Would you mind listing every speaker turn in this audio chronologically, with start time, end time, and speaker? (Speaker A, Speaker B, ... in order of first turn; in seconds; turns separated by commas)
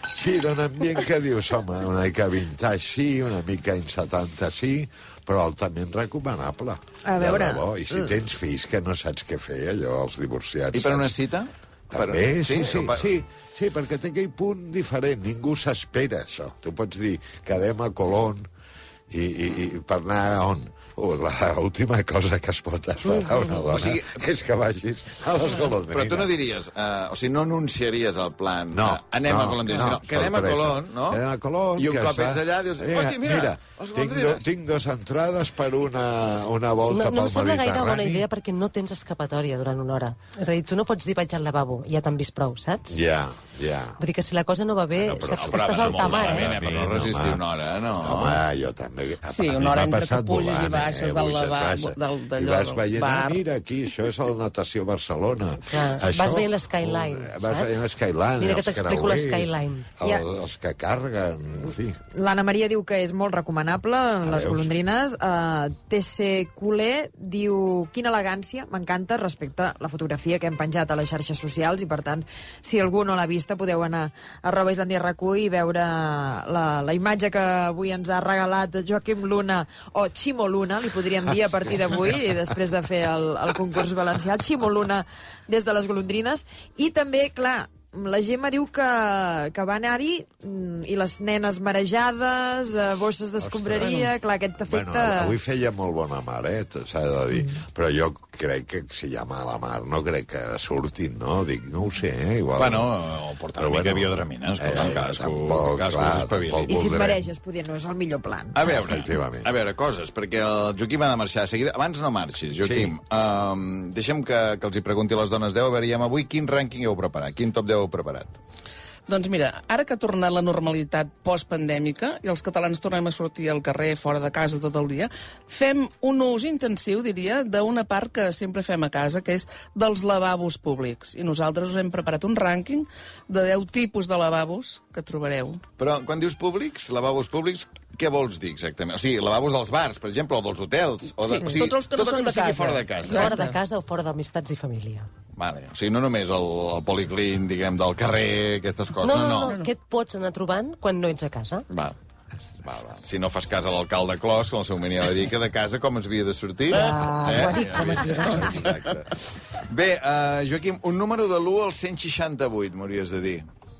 Speaker A: 0.1-11.1, Speaker B: 7.0-8.1, Speaker C: 10.7-13.1, Speaker A: 11.9-18.4, Speaker A: 19.1-26.3, Speaker D: 23.1-23.6, Speaker C: 23.6-24.2, Speaker C: 25.9-31.2, Speaker A: 28.7-38.2, Speaker C: 31.8-34.4, Speaker D: 36.9-43.0, Speaker A: 42.9-44.0, Speaker D: 44.0-46.5, Speaker A: 44.9-47.4, Speaker C: 45.2-48.4, Speaker A: 48.0-62.0, Speaker E: 49.2-53.4, Speaker D: 55.7-57.9, Speaker D: 58.4-59.9, Speaker B: 60.0-60.2, Speaker B: 62.1-95.3, Speaker A: 64.2-64.7, Speaker A: 93.4-102.9, Speaker B: 97.3-97.6, Speaker C: 102.5-106.9, Speaker A: 103.5-107.2, Speaker B: 106.7-108.6, Speaker C: 108.5-118.4, Speaker A: 108.7-109.5, Speaker A: 112.6-112.9, Speaker E: 119.1-135.6, Speaker C: 135.8-143.3, Speaker E: 141.2-143.6, Speaker D: 143.1-145.1, Speaker C: 145.3-149.5, Speaker D: 149.0-151.6, Speaker C: 151.7-151.9, Speaker C: 152.6-159.0, Speaker D: 156.7-158.6, Speaker A: 157.4-159.1, Speaker C: 159.6-163.4